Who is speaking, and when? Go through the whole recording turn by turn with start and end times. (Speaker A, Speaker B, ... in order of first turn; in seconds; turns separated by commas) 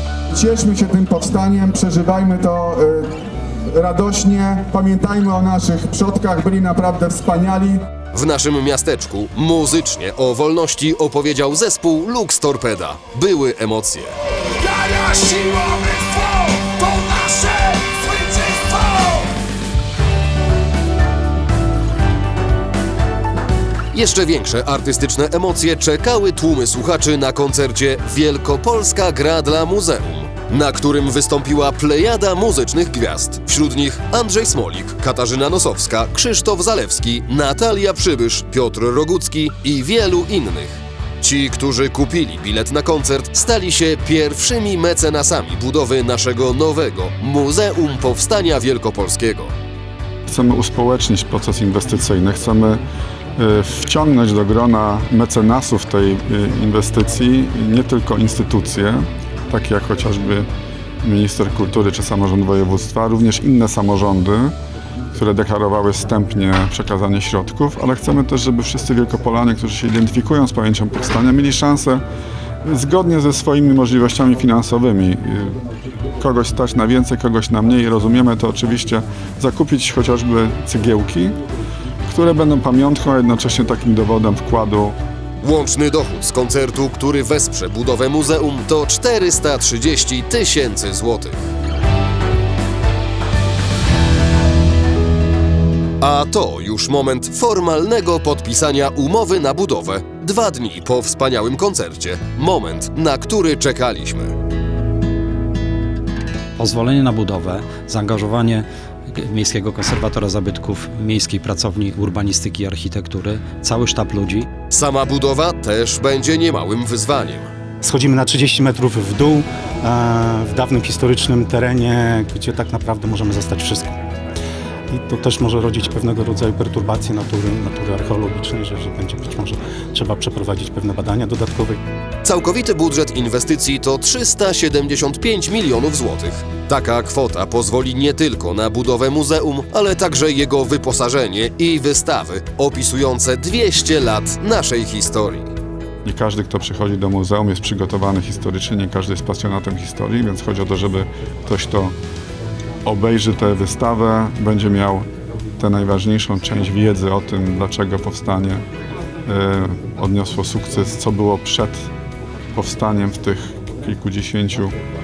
Speaker A: 0.3-7.9, Speaker B: 8.1-19.3, Speaker A: 15.1-15.5, Speaker B: 23.9-49.5, Speaker C: 50.3-52.8, Speaker C: 53.4-60.5, Speaker C: 61.0-64.5, Speaker C: 65.1-72.0, Speaker C: 72.6-75.6, Speaker C: 76.2-81.4, Speaker C: 82.1-85.0, Speaker B: 85.4-91.5, Speaker B: 96.0-104.4, Speaker D: 106.6-114.5, Speaker B: 114.7-117.5, Speaker E: 117.8-124.0, Speaker E: 124.9-131.8, Speaker B: 132.2-145.5, Speaker C: 146.1-151.9, Speaker C: 152.8-155.1, Speaker C: 155.6-158.6, Speaker C: 159.3-161.9, Speaker C: 162.5-164.8